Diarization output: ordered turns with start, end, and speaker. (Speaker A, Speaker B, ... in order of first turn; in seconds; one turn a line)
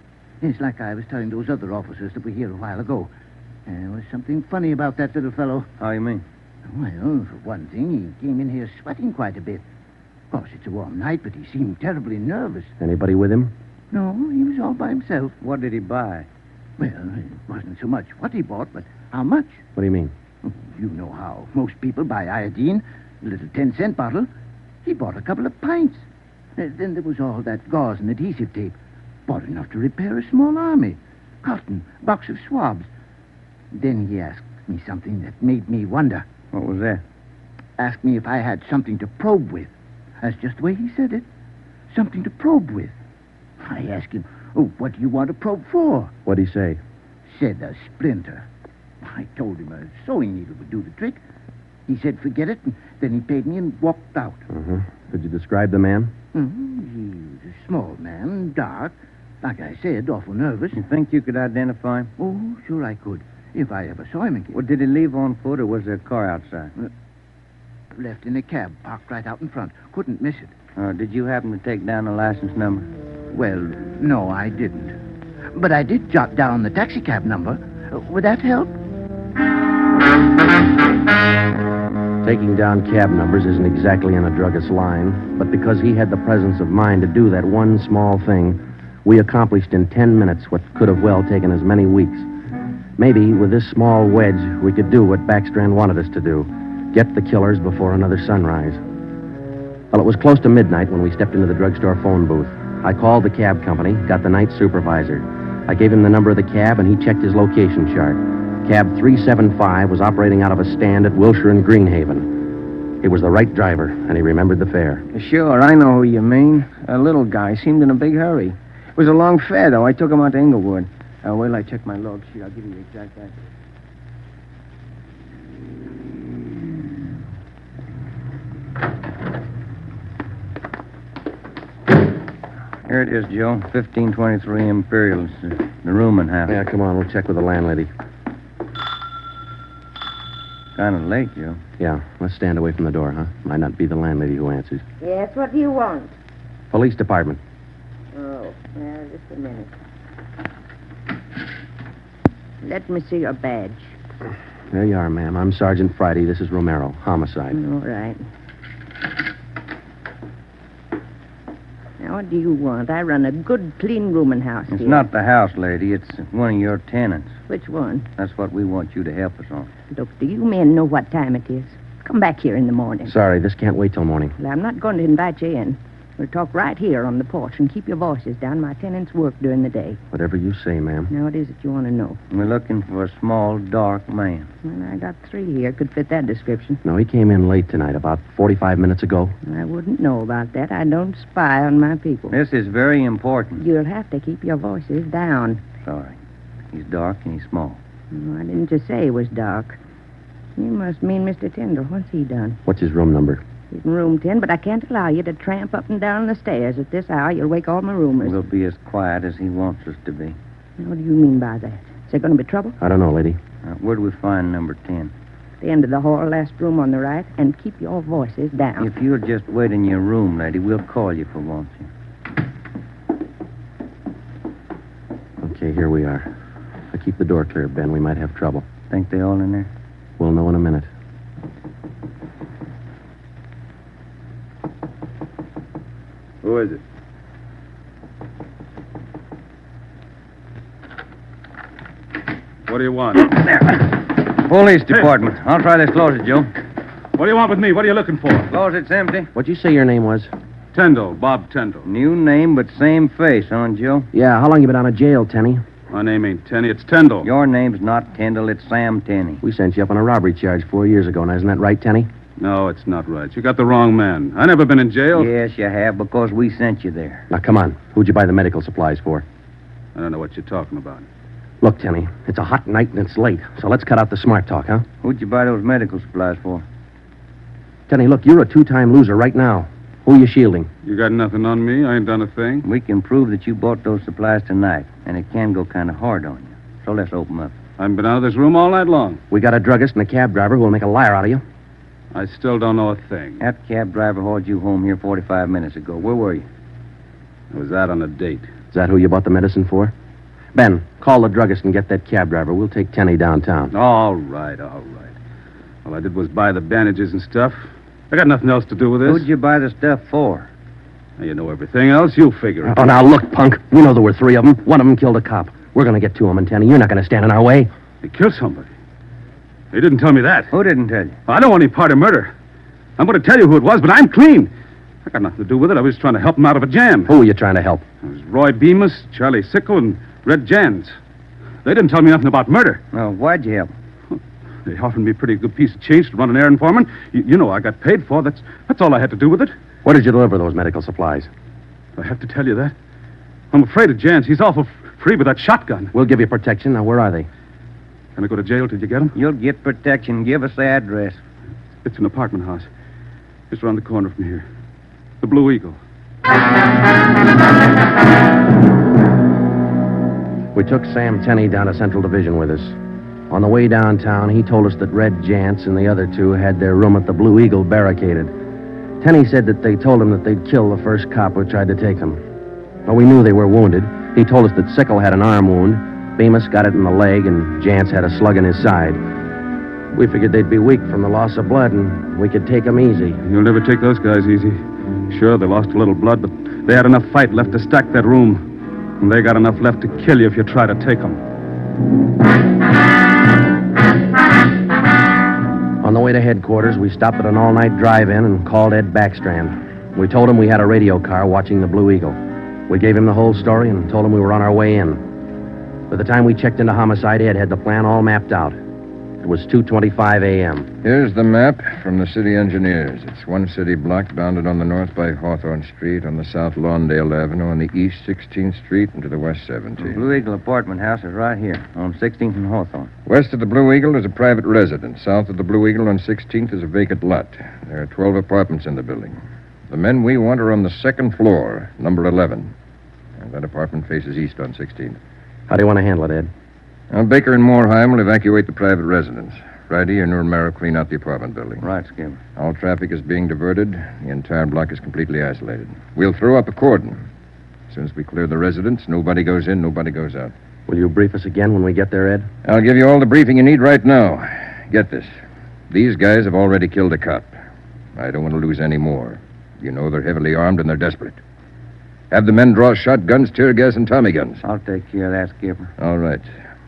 Speaker A: 0.4-3.1
Speaker A: 3.7-5.7
Speaker B: 5.8-6.2
Speaker A: 6.7-9.6
Speaker A: 10.3-12.7
Speaker C: 12.8-13.5
Speaker A: 13.9-15.3
Speaker B: 15.4-16.3
Speaker A: 16.8-19.6
Speaker C: 19.8-20.1
Speaker A: 20.4-24.3
Speaker A: 24.9-26.0
Speaker A: 26.6-28.8
Speaker A: 29.3-32.9
Speaker A: 33.7-36.3
Speaker B: 36.5-37.0
Speaker A: 37.8-41.2
Speaker A: 41.9-42.9
Speaker A: 43.6-46.1
Speaker C: 46.3-46.8
Speaker A: 47.3-48.5
Speaker A: 49.0-51.2
Speaker A: 51.9-54.4
Speaker C: 54.5-56.1
Speaker A: 56.3-60.8
Speaker B: 60.8-62.1
Speaker A: 62.2-64.6
Speaker B: 64.5-66.7
Speaker A: 68.0-70.5
Speaker B: 70.8-72.9
Speaker A: 73.3-75.0
Speaker A: 75.5-78.8
Speaker C: 82.2-92.3
Speaker C: 93.0-98.8
Speaker C: 99.9-112.5
Speaker C: 113.0-115.0
Speaker D: 115.1-123.3
Speaker B: 132.9-136.6
Speaker C: 136.5-137.9
Speaker B: 140.8-141.6
Speaker C: 141.8-144.8
Speaker E: 145.0-146.2
Speaker C: 146.7-147.4
Speaker E: 148.1-149.7
Speaker E: 152.6-153.9
Speaker C: 154.7-157.6
Speaker E: 157.5-158.2
Speaker E: 162.0-165.1
Speaker B: 164.7-167.4
Speaker E: 167.5-168.1
Speaker B: 168.2-169.7
Speaker E: 169.9-173.1
Speaker C: 173.1-174.3
Speaker E: 174.4-180.0
Speaker C: 180.1-181.1
Speaker E: 181.1-182.2
Speaker B: 182.3-184.5
Speaker E: 184.6-186.8
Speaker C: 186.8-189.3
Speaker E: 189.4-192.4
Speaker B: 192.3-193.6
Speaker E: 193.6-195.6
Speaker B: 195.8-196.2
Speaker B: 196.7-197.8
Speaker E: 198.1-199.8
Speaker E: 200.6-202.6
Speaker C: 202.7-203.4
Speaker E: 203.7-208.4
Speaker B: 208.2-210.4
Speaker E: 210.8-212.8
Speaker C: 212.8-213.4
Speaker B: 213.6-215.1
Speaker E: 215.6-218.9
Speaker B: 218.8-221.9
Speaker C: 225.4-226.3
Speaker C: 226.9-228.7
Speaker B: 228.9-229.7
Speaker C: 230.2-230.9
Speaker F: 236.4-236.8
Speaker F: 242.7-243.3
Speaker B: 244.3-246.5
Speaker F: 247.2-248.5
Speaker B: 248.5-249.3
Speaker C: 249.3-250.3
Speaker F: 250.7-251.9
Speaker B: 251.8-254.1
Speaker C: 254.1-255.6
Speaker F: 255.9-257.3
Speaker B: 257.2-259.4
Speaker C: 259.4-262.1
Speaker F: 262.4-265.3
Speaker B: 265.1-267.3
Speaker C: 267.3-269.2
Speaker F: 269.9-271.1
Speaker C: 271.6-274.9
Speaker B: 275.0-276.6
Speaker C: 277.9-280.7
Speaker F: 280.8-282.6
Speaker B: 282.6-287.6
Speaker F: 287.8-289.2
Speaker C: 289.3-291.4
Speaker F: 292.1-293.4
Speaker B: 293.4-296.5
Speaker F: 297.5-298.5
Speaker C: 298.7-299.9
Speaker C: 300.5-303.7
Speaker F: 303.7-305.1
Speaker F: 305.9-309.3
Speaker B: 309.0-310.5
Speaker F: 311.2-312.8
Speaker C: 312.6-317.7
Speaker F: 318.0-318.7
Speaker F: 319.7-320.5
Speaker B: 320.5-321.2
Speaker F: 321.3-322.3
Speaker F: 323.0-324.5
Speaker F: 325.0-327.1
Speaker C: 327.1-327.9
Speaker F: 328.0-331.0
Speaker F: 331.6-332.8
Speaker B: 332.9-333.7
Speaker F: 334.7-339.6
Speaker C: 339.8-341.3
Speaker F: 342.0-342.8
Speaker F: 343.5-345.9
Speaker C: 345.9-347.3
Speaker F: 348.2-349.1
Speaker B: 349.1-351.2
Speaker F: 351.8-352.7
Speaker F: 353.5-354.4
Speaker F: 355.2-355.8
Speaker C: 360.5-362.8
Speaker C: 363.3-368.3
Speaker C: 369.0-372.2
Speaker C: 372.9-379.0
Speaker C: 379.9-383.2
Speaker F: 383.2-388.5
Speaker F: 389.0-391.2
Speaker C: 395.8-405.0
Speaker C: 405.9-408.6
Speaker C: 409.2-410.7
Speaker G: 410.8-420.0
Speaker B: 419.8-422.9
Speaker G: 423.1-429.2
Speaker G: 429.7-432.5
Speaker G: 433.2-435.0
Speaker C: 435.5-436.3
Speaker G: 436.9-441.6
Speaker B: 441.6-442.2
Speaker G: 442.4-447.0
Speaker G: 447.7-450.3
Speaker C: 450.7-452.3
Speaker G: 452.4-455.1
Speaker G: 455.7-457.4
Speaker G: 458.0-461.2
Speaker G: 462.1-464.4
Speaker B: 464.4-465.7
Speaker G: 465.8-466.3